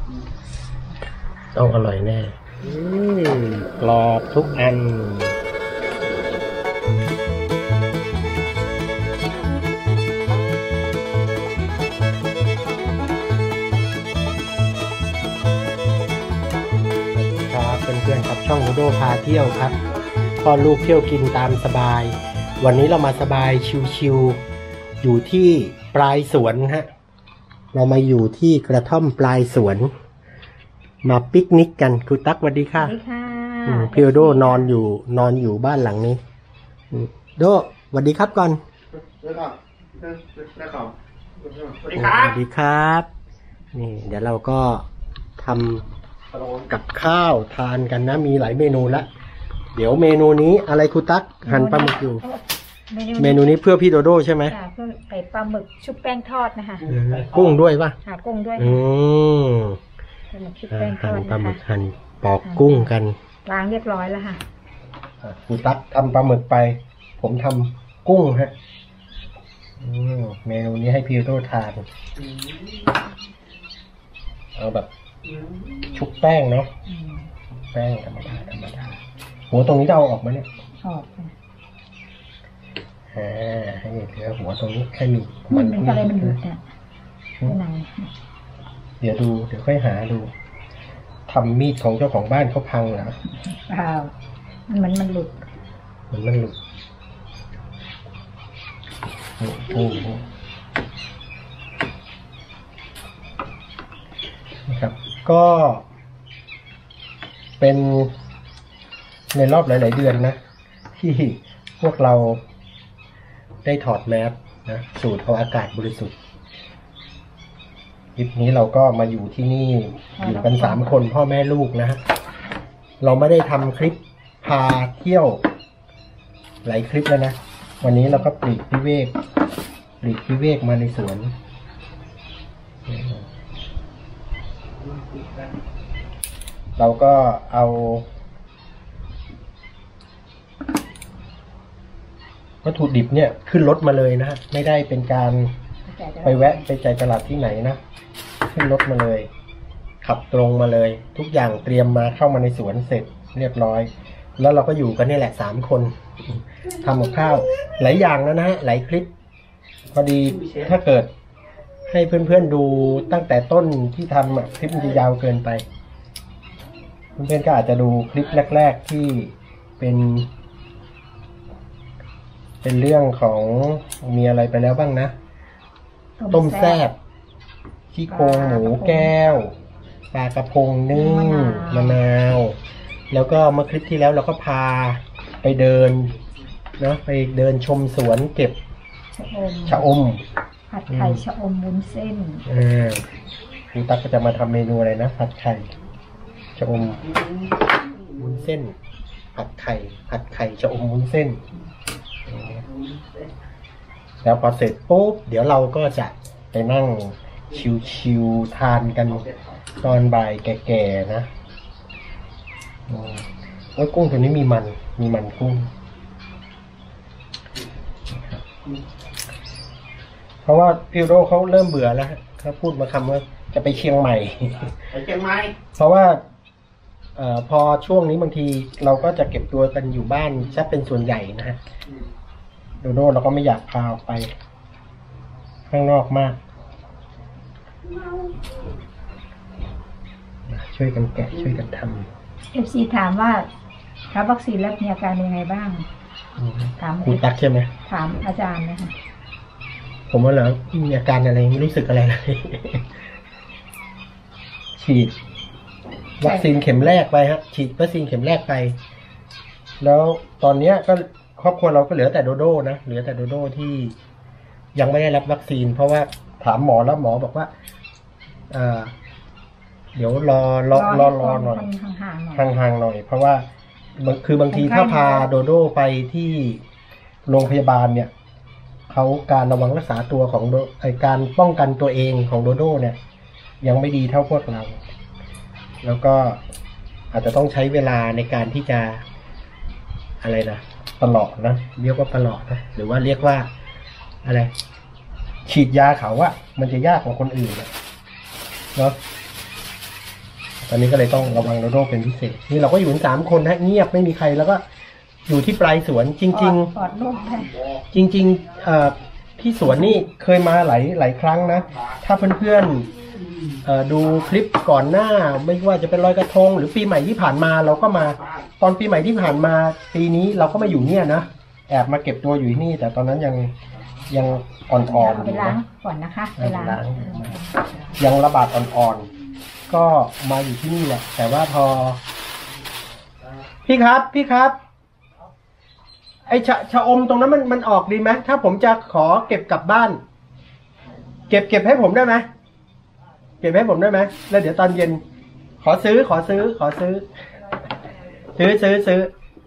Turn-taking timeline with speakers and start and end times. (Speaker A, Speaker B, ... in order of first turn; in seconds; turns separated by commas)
Speaker A: 1.6-5.4, Speaker A: 17.1-19.8, Speaker A: 20.4-24.4, Speaker A: 25.0-26.9, Speaker A: 27.7-29.9, Speaker A: 31.0-33.0, Speaker B: 32.8-34.8, Speaker A: 33.7-36.2, Speaker A: 36.9-38.6, Speaker C: 39.2-40.9, Speaker C: 41.5-42.3, Speaker A: 41.9-43.1, Speaker A: 43.7-44.9, Speaker A: 45.4-45.9, Speaker A: 46.7-49.1, Speaker A: 49.7-52.2, Speaker B: 51.5-53.6, Speaker A: 53.2-54.6, Speaker B: 54.5-56.9, Speaker A: 56.9-58.0, Speaker B: 58.0-58.8, Speaker A: 58.6-59.8, Speaker B: 60.3-61.6, Speaker A: 60.7-63.2, Speaker B: 62.5-62.9, Speaker B: 63.5-64.4, Speaker A: 65.2-68.5, Speaker A: 69.8-71.9, Speaker A: 74.6-74.9, Speaker A: 75.9-76.7, Speaker B: 76.9-77.3, Speaker A: 77.7-80.5, Speaker B: 80.8-81.3, Speaker A: 83.1-86.4, Speaker B: 85.5-86.6, Speaker B: 87.5-88.1, Speaker A: 89.0-90.3, Speaker A: 91.3-93.2, Speaker B: 93.4-94.1, Speaker B: 94.7-95.4, Speaker A: 96.1-96.6, Speaker A: 99.4-100.2, Speaker A: 104.7-105.9, Speaker A: 107.6-108.1, Speaker A: 109.3-110.4, Speaker A: 111.0-112.4, Speaker A: 113.6-116.2, Speaker A: 118.2-122.0, Speaker B: 120.2-121.0, Speaker A: 123.0-125.4, Speaker A: 126.6-129.2, Speaker B: 127.9-128.2, Speaker A: 130.0-131.3, Speaker A: 132.9-133.3, Speaker A: 136.8-138.1, Speaker A: 142.6-145.5, Speaker B: 145.8-146.6, Speaker A: 146.2-147.8, Speaker A: 148.4-149.3, Speaker A: 150.0-159.1, Speaker A: 159.9-161.1, Speaker A: 161.9-165.7, Speaker A: 167.2-170.3, Speaker A: 172.6-175.1, Speaker B: 176.2-176.8, Speaker A: 176.3-177.0, Speaker A: 177.9-179.6, Speaker B: 178.1-179.1, Speaker A: 180.1-182.6, Speaker B: 180.9-182.0, Speaker A: 183.1-186.1, Speaker A: 186.8-188.6, Speaker B: 189.1-189.9, Speaker A: 189.7-190.2, Speaker B: 190.7-192.5, Speaker A: 190.9-191.2, Speaker A: 192.5-193.1, Speaker A: 193.7-195.7, Speaker A: 196.6-197.0, Speaker A: 198.2-198.8, Speaker A: 199.3-201.4, Speaker A: 202.3-202.6, Speaker A: 204.2-209.3, Speaker A: 209.8-211.3, Speaker A: 212.9-215.7, Speaker A: 218.1-218.4, Speaker A: 220.4-224.8, Speaker C: 224.9-225.6, Speaker A: 225.8-226.2, Speaker A: 227.2-231.6, Speaker A: 232.8-234.3, Speaker A: 235.7-236.4, Speaker A: 240.5-242.1, Speaker B: 242.5-243.5, Speaker B: 244.1-245.9, Speaker A: 246.4-247.7, Speaker B: 246.8-247.2, Speaker B: 247.9-248.9, Speaker A: 250.1-252.9, Speaker A: 254.8-255.1, Speaker A: 256.2-258.8, Speaker B: 256.2-256.5, Speaker A: 259.8-264.0, Speaker A: 264.8-267.5, Speaker A: 268.5-268.9, Speaker A: 269.9-271.7, Speaker B: 270.7-272.5, Speaker A: 272.3-276.6, Speaker B: 274.5-275.3, Speaker A: 277.3-278.1, Speaker A: 278.9-283.0, Speaker A: 283.6-284.8, Speaker A: 285.8-286.4, Speaker A: 287.1-289.0, Speaker A: 290.2-293.5, Speaker A: 294.2-294.5, Speaker A: 295.5-297.7, Speaker A: 300.6-304.6, Speaker A: 305.3-306.7, Speaker B: 306.3-307.6, Speaker A: 307.9-312.9, Speaker A: 313.6-323.5, Speaker A: 324.1-325.6, Speaker B: 324.9-328.0, Speaker A: 326.4-327.4, Speaker A: 328.0-329.1, Speaker A: 329.7-332.0, Speaker A: 333.6-334.6, Speaker A: 336.3-340.0, Speaker A: 341.3-342.3, Speaker A: 343.4-345.0, Speaker A: 345.6-347.1, Speaker A: 348.4-349.1